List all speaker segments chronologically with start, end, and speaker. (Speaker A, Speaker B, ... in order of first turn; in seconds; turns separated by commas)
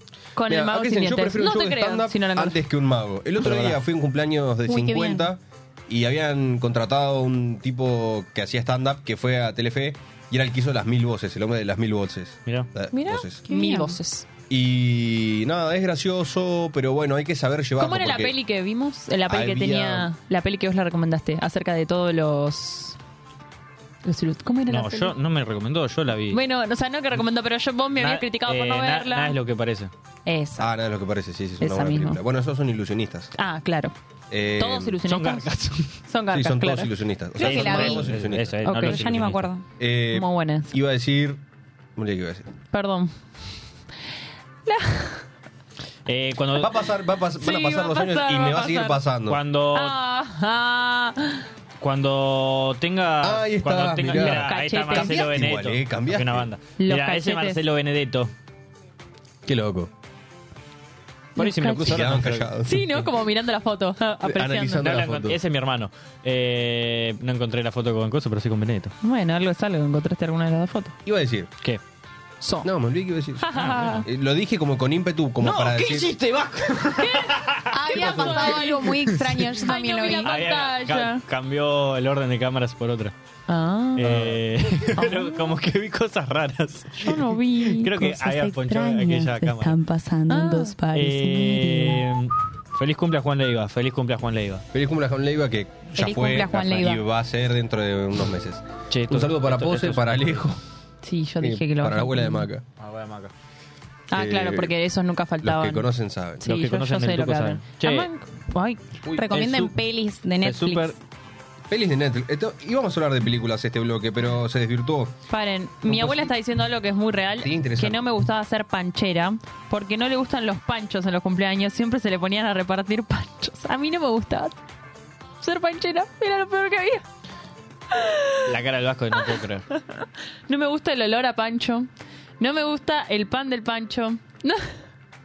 Speaker A: 0.4-2.6, Speaker B: 0.5-13.4, Speaker C: 3.4-3.8, Speaker D: 4.7-5.3, Speaker A: 12.9-14.3, Speaker D: 13.5-14.0, Speaker B: 14.5-18.4, Speaker A: 17.8-23.0, Speaker B: 19.3-20.1, Speaker A: 24.0-25.1, Speaker C: 24.7-26.4, Speaker A: 26.3-29.4, Speaker C: 28.0-29.9, Speaker A: 30.3-30.7, Speaker B: 30.6-33.3, Speaker A: 31.6-32.2, Speaker A: 33.4-33.9, Speaker B: 34.3-35.0, Speaker A: 34.6-35.5, Speaker C: 35.0-36.0, Speaker A: 36.0-36.9, Speaker B: 36.3-38.6, Speaker D: 37.4-38.0, Speaker C: 37.4-39.5, Speaker A: 37.4-38.0, Speaker D: 38.6-39.6, Speaker A: 38.7-39.0, Speaker B: 39.8-41.4, Speaker A: 40.1-40.7, Speaker B: 42.0-42.5, Speaker A: 42.7-43.2, Speaker A: 44.7-45.2, Speaker C: 46.1-46.7, Speaker B: 46.5-49.4, Speaker A: 47.4-49.0, Speaker C: 49.3-50.0, Speaker A: 49.7-51.4, Speaker C: 51.8-58.3, Speaker B: 53.2-56.5, Speaker A: 54.1-55.2, Speaker A: 56.8-57.6, Speaker B: 59.5-59.9, Speaker C: 61.4-62.8, Speaker A: 61.4-64.8, Speaker B: 61.9-62.9, Speaker B: 64.2-65.4, Speaker C: 64.8-69.0, Speaker A: 69.0-71.0, Speaker B: 71.0-71.5, Speaker A: 72.4-72.7, Speaker B: 72.6-76.1, Speaker A: 73.4-74.0, Speaker C: 73.6-74.0, Speaker C: 75.4-78.3, Speaker A: 77.0-78.9, Speaker D: 77.7-80.4, Speaker C: 79.1-79.6, Speaker A: 79.6-81.2, Speaker C: 80.2-83.1, Speaker A: 83.5-84.2, Speaker C: 84.0-89.8, Speaker B: 84.0-84.4, Speaker A: 85.0-85.6, Speaker A: 87.0-87.9, Speaker D: 87.9-92.1, Speaker A: 90.3-90.8, Speaker C: 90.9-94.7, Speaker B: 94.7-100.6, Speaker D: 96.0-97.0, Speaker C: 98.9-100.5, Speaker A: 101.0-102.5, Speaker B: 101.4-102.7, Speaker C: 102.8-103.3, Speaker A: 104.1-105.9, Speaker B: 104.1-104.8, Speaker B: 105.4-106.4, Speaker A: 106.4-108.8, Speaker C: 106.4-108.1, Speaker B: 109.0-109.4, Speaker D: 109.2-110.9, Speaker C: 109.3-109.8, Speaker C: 110.4-111.0, Speaker B: 111.7-115.1, Speaker A: 115.3-124.5, Speaker B: 115.9-116.3, Speaker B: 117.4-118.0, Speaker A: 125.4-127.0, Speaker A: 127.9-128.4, Speaker C: 128.5-129.7, Speaker A: 130.5-131.9, Speaker A: 132.4-134.8